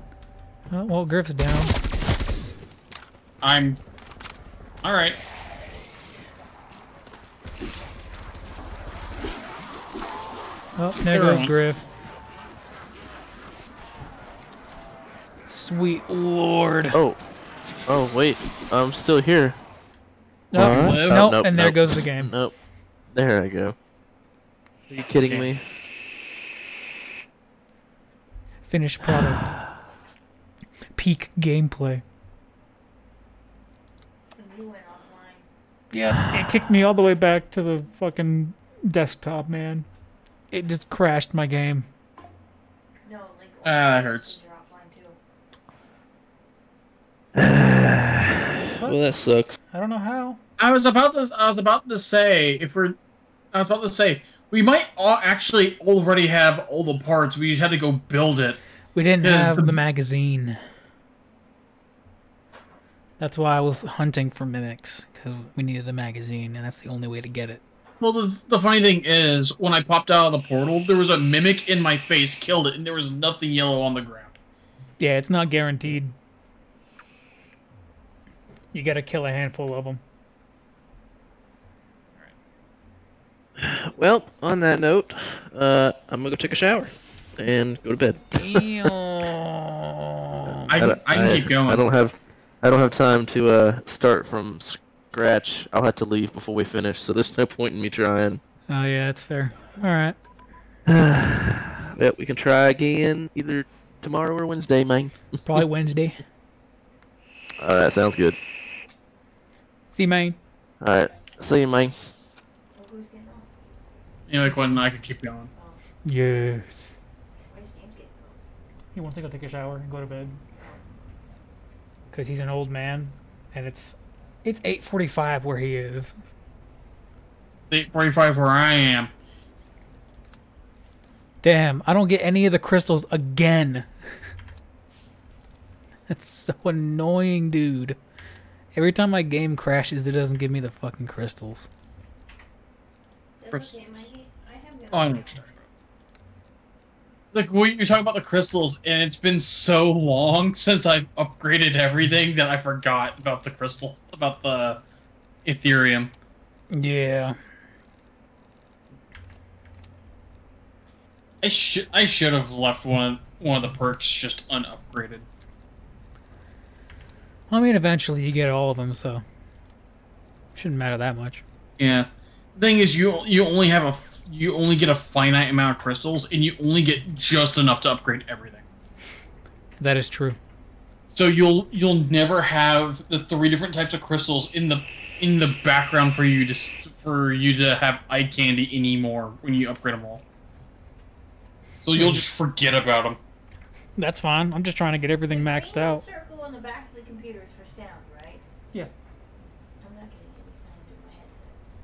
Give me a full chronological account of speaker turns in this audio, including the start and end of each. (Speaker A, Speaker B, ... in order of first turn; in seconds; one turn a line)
Speaker A: 0.7-1.7
Speaker B: 3.4-3.8
Speaker B: 4.8-5.2
Speaker A: 10.8-11.9
Speaker B: 11.1-11.5
Speaker A: 15.5-17.0
Speaker C: 16.9-17.2
Speaker C: 17.8-19.6
Speaker A: 20.5-22.3
Speaker C: 20.5-22.6
Speaker B: 20.6-21.2
Speaker C: 23.1-23.8
Speaker B: 24.9-25.6
Speaker C: 25.0-25.6
Speaker A: 28.7-29.6
Speaker A: 30.9-32.0
Speaker D: 34.3-35.5
Speaker A: 35.9-39.9
Speaker A: 40.5-41.9
Speaker D: 43.0-45.2
Speaker B: 43.6-44.4
Speaker C: 47.4-49.6
Speaker A: 49.7-50.4
Speaker B: 50.6-53.0
Speaker B: 53.5-58.6
Speaker A: 59.0-60.6
Speaker B: 59.2-59.8
Speaker A: 63.2-67.6
Speaker B: 68.0-74.4
Speaker A: 75.0-76.2
Speaker A: 78.7-80.0
Speaker C: 83.6-88.9
Speaker A: 88.4-90.7
Speaker B: 90.7-91.8
Speaker C: 90.8-98.4
Speaker A: 98.7-100.2
Speaker C: 100.9-105.6
Speaker A: 105.5-106.2
Speaker C: 107.6-108.4
Speaker A: 110.0-110.4
Speaker C: 110.8-112.0
Speaker D: 112.7-113.5
Speaker B: 114.3-115.5
Speaker D: 115.5-115.8
Speaker A: 116.0-116.9
Speaker D: 117.5-118.4
Speaker A: 118.9-120.4
Speaker D: 120.6-120.8
Speaker A: 122.1-126.2
Speaker B: 127.7-129.1
Speaker A: 131.4-133.9
Speaker A: 136.1-138.0
Speaker A: 138.7-141.7
Speaker D: 143.4-145.6
Speaker B: 143.5-143.8
Speaker B: 144.9-145.6
Speaker B: 147.3-154.8
Speaker B: 155.4-156.1
Speaker A: 156.7-157.4
Speaker B: 161.4-165.3
Speaker A: 167.5-169.2
Speaker A: 170.6-171.4
Speaker B: 171.8-178.7
Speaker A: 179.8-180.4
Speaker B: 181.1-190.2
Speaker B: 191.8-193.2
Speaker A: 192.0-192.3
Speaker A: 194.0-196.1
Speaker D: 195.3-198.4
Speaker D: 199.8-201.6